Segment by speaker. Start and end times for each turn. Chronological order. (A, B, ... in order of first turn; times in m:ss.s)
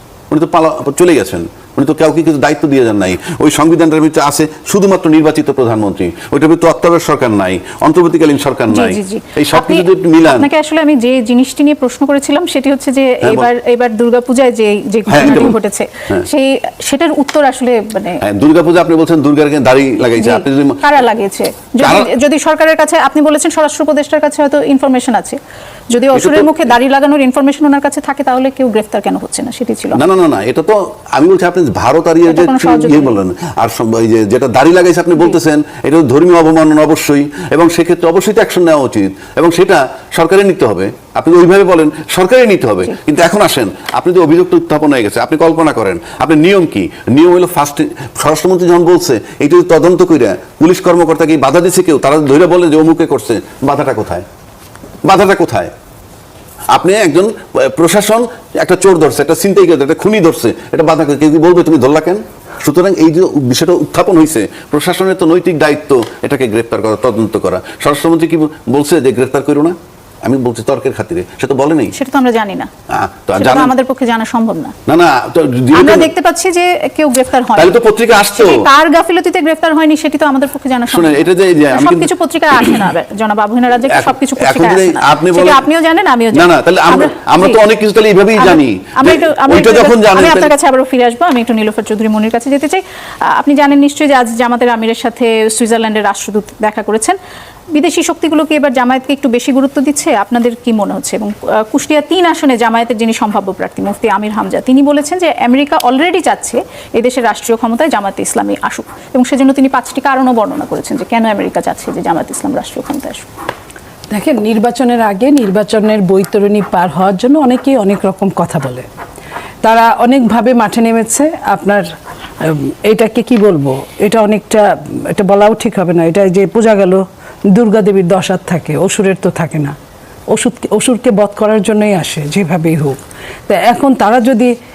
0:00.3-0:10.5 A
0:08.7-0:18.2 B
0:13.2-0:13.5 A
0:15.1-0:15.6 A
0:18.2-0:20.8 A
0:20.2-0:25.4 B
0:21.8-0:22.1 A
0:25.9-0:30.0 B
0:26.2-0:26.6 A
0:30.0-0:54.2 A
0:32.3-0:33.1 B
0:55.0-0:55.7 A
0:56.7-1:11.9 A
1:11.9-1:12.7 B
1:12.9-1:13.7 A
1:13.3-1:14.7 B
1:14.9-1:16.1 A
1:15.7-1:17.8 B
1:17.6-1:18.7 A
1:18.3-1:27.6 B
1:20.9-1:22.8 A
1:23.9-1:25.6 A
1:26.3-1:30.5 A
1:28.4-1:37.2 B
1:37.7-1:53.3 B
1:54.1-1:58.9 C
1:59.6-2:01.9 C
2:02.4-2:09.8 C
2:10.3-2:13.0 C
2:13.5-2:14.5 C